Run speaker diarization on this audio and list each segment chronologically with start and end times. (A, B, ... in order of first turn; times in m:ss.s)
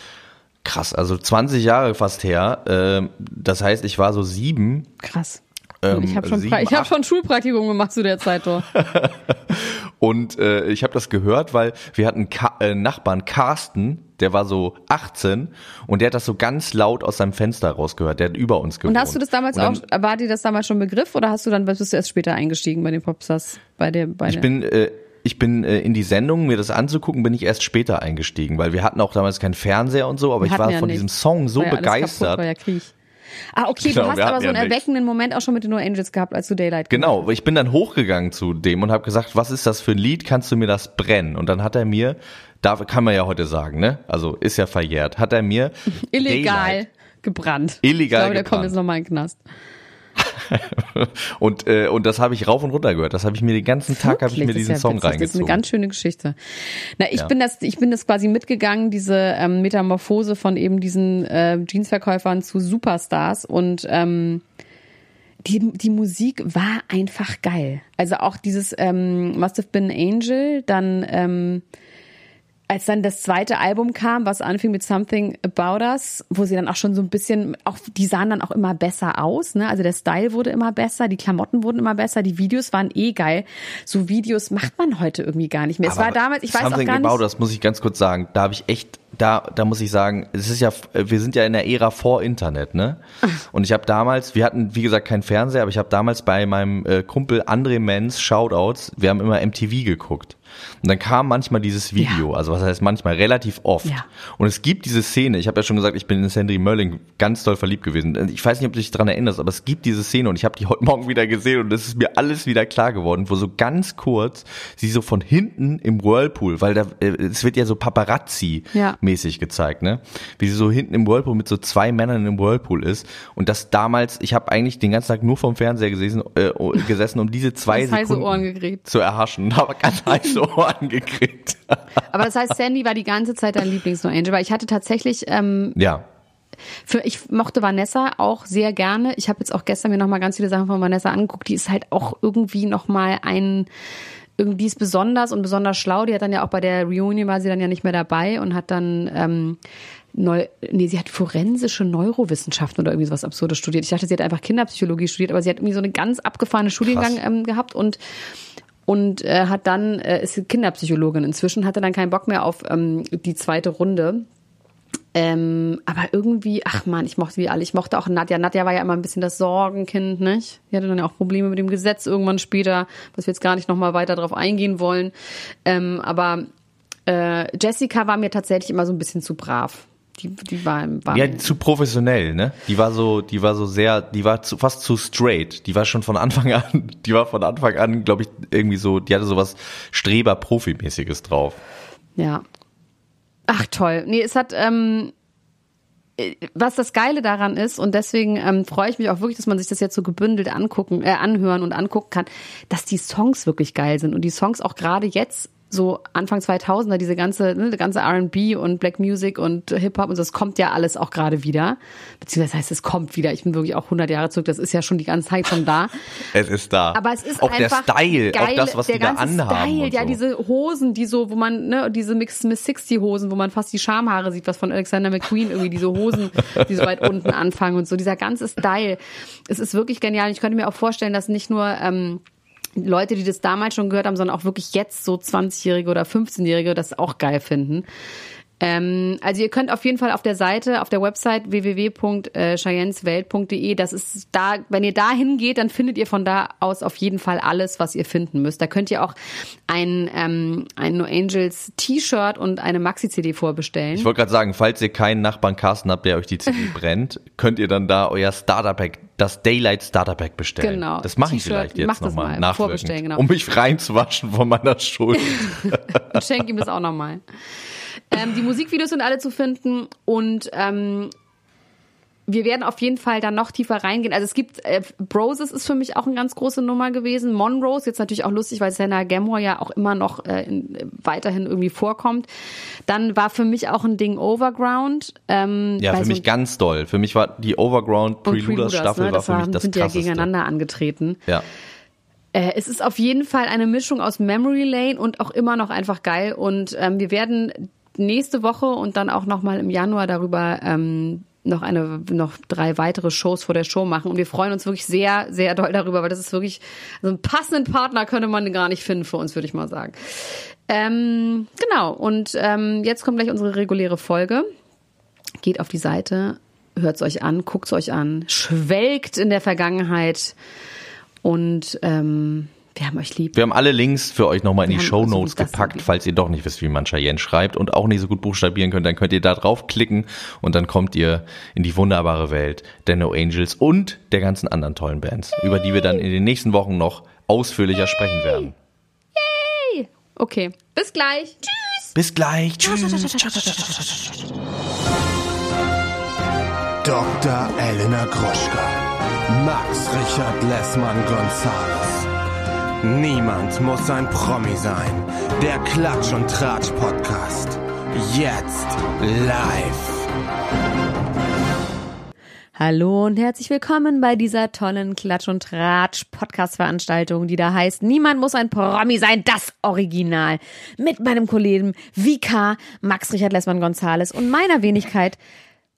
0:00.6-0:04.9 A
0:05.0-0:08.7 B
0:05.8-0:06.9 A
0:08.7-0:19.8 A
0:18.8-0:24.4 B
0:24.2-0:32.4 A
0:30.4-0:32.9 B
0:33.5-0:37.2 B
0:33.8-0:34.8 A
0:36.9-0:46.8 A
0:45.9-0:49.4 B
0:47.8-0:48.7 A
0:50.2-0:55.6 A
0:53.9-1:04.4 B
1:05.4-1:11.6 B
1:12.7-1:27.2 B
1:25.8-2:11.8 A
2:07.7-2:08.8 B
2:12.0-2:15.8 B
2:15.8-2:16.0 A
2:16.8-2:23.7 B
2:24.4-2:29.6 B
2:30.1-2:38.0 B
2:36.8-2:37.2 A
2:38.8-2:44.2 B
2:45.1-2:55.1 B
2:55.6-2:56.5 B
2:57.1-3:01.5 B
3:01.1-3:11.6 A
3:12.2-3:12.4 B
3:13.5-3:15.1 B
3:16.2-3:35.9 B
3:36.3-3:40.2 A
3:36.9-3:52.2 B
3:52.8-3:57.8 B
3:58.6-4:09.2 B
4:09.7-4:14.1 B
4:13.9-4:26.2 A
4:20.6-4:23.2 B
4:25.9-4:27.2 B
4:28.1-4:31.1 B
4:32.3-4:42.3 B
4:42.9-4:46.2 B
4:45.8-4:50.3 A
4:48.2-4:51.2 B
4:52.3-5:10.0 B
5:10.7-5:14.5 B
5:15.4-5:20.3 B
5:21.2-5:23.3 B
5:23.3-5:38.5 A
5:24.6-5:25.9 B
5:39.1-5:41.9 B
5:41.9-5:44.1 A
5:42.8-5:43.2 B
5:46.8-5:52.1 C
5:52.8-6:00.1 C
6:02.6-6:15.2 B